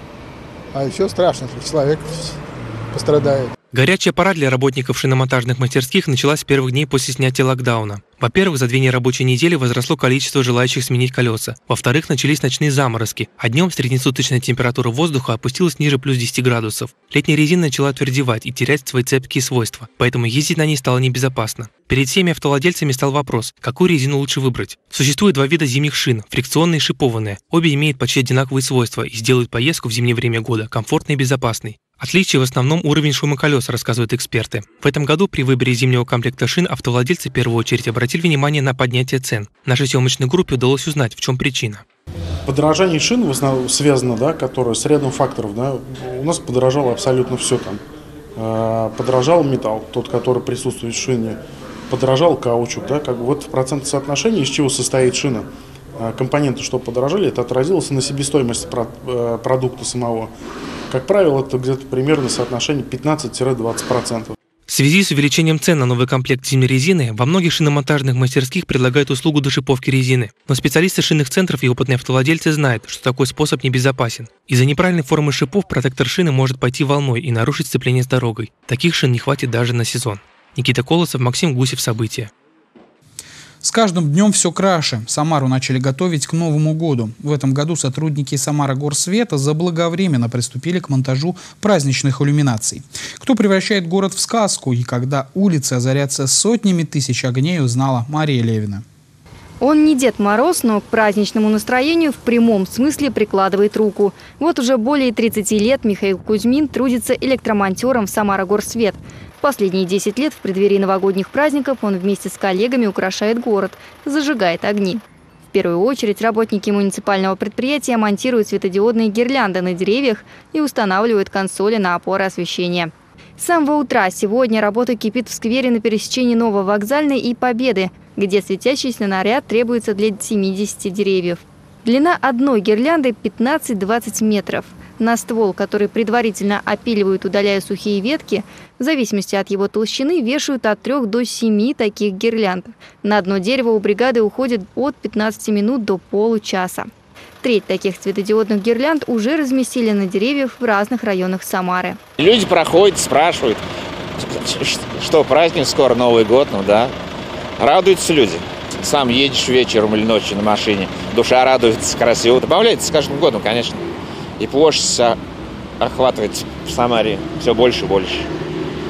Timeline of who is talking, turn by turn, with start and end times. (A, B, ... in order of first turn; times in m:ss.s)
0:00.7-0:02.4 A
0:02.9-0:03.5 A
0:03.7-0:41.8 B
0:42.4-0:47.8 C
0:48.4-1:00.3 C
1:00.9-1:04.4 C
1:04.7-1:22.3 B
1:23.6-1:38.8 D
1:39.6-2:26.9 E
2:27.4-2:32.0 E
2:32.2-2:33.6 F
2:34.2-2:36.9 F
2:37.6-2:43.8 F
2:44.4-2:45.2 F
2:45.8-2:48.3 F